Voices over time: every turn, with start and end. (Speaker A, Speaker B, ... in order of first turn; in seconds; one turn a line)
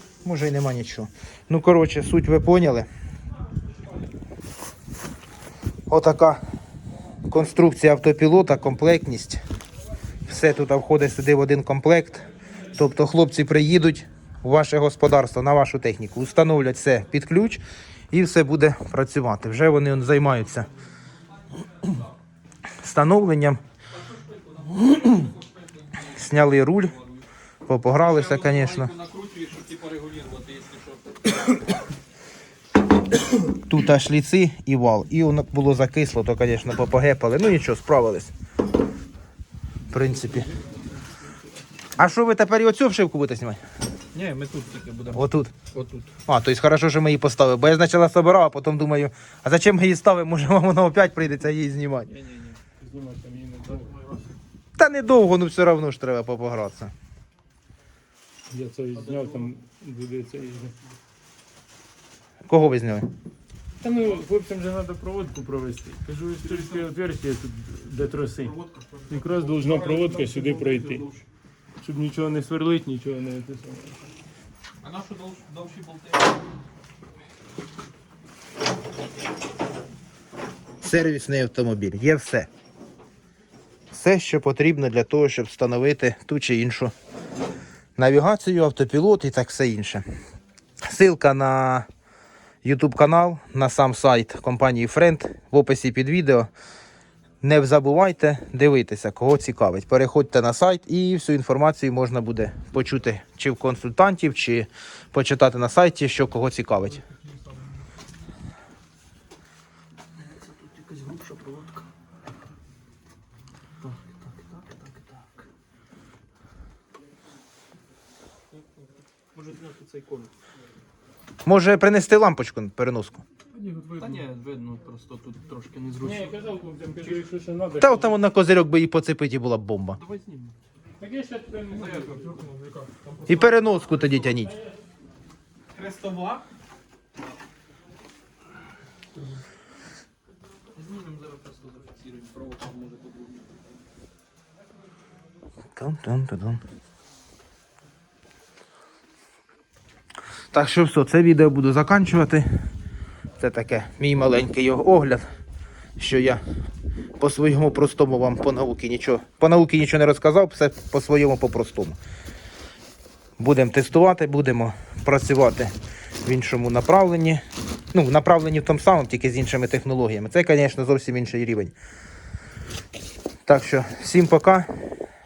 Speaker A: 0.2-2.9
Speaker A: 5.9-6.4
Speaker A: 7.3-9.4
Speaker A: 10.3-20.7
Speaker A: 22.8-23.6
Speaker A: 26.0-27.0
Speaker A: 27.7-28.9
Speaker B: 28.0-31.0
Speaker A: 33.5-38.3
Speaker A: 39.9-40.5
Speaker A: 41.9-43.6
Speaker B: 44.1-45.2
Speaker A: 45.1-45.5
Speaker B: 45.7-46.1
Speaker A: 46.2-52.1
Speaker C: 52.3-54.0
Speaker A: 54.8-56.9
Speaker C: 58.5-60.7
Speaker A: 62.5-63.1
Speaker C: 63.8-71.1
Speaker B: 68.5-71.2
Speaker C: 71.8-74.0
Speaker B: 74.8-76.3
Speaker A: 80.8-82.5
Speaker A: 83.9-86.9
Speaker A: 88.0-90.0
Speaker A: 90.8-91.9
Speaker A: 92.6-96.5
Speaker A: 97.4-107.0
Speaker B: 110.5-111.8
Speaker B: 119.3-120.3
Speaker A: 121.4-123.2
Speaker C: 123.5-124.2
Speaker B: 124.0-126.5
Speaker C: 126.0-128.1
Speaker A: 127.8-130.0
Speaker B: 130.0-130.5
Speaker C: 131.0-132.8
Speaker B: 131.7-132.6
Speaker A: 133.2-134.5
Speaker B: 135.7-136.4
Speaker B: 140.7-143.5
Speaker A: 145.8-146.6
Speaker A: 150.5-152.6
Speaker A: 153.4-155.3
Speaker A: 156.0-156.4
Speaker A: 157.2-162.0
Speaker A: 163.4-165.7
Speaker A: 166.2-167.4
Speaker A: 167.9-171.7
Speaker A: 173.5-174.7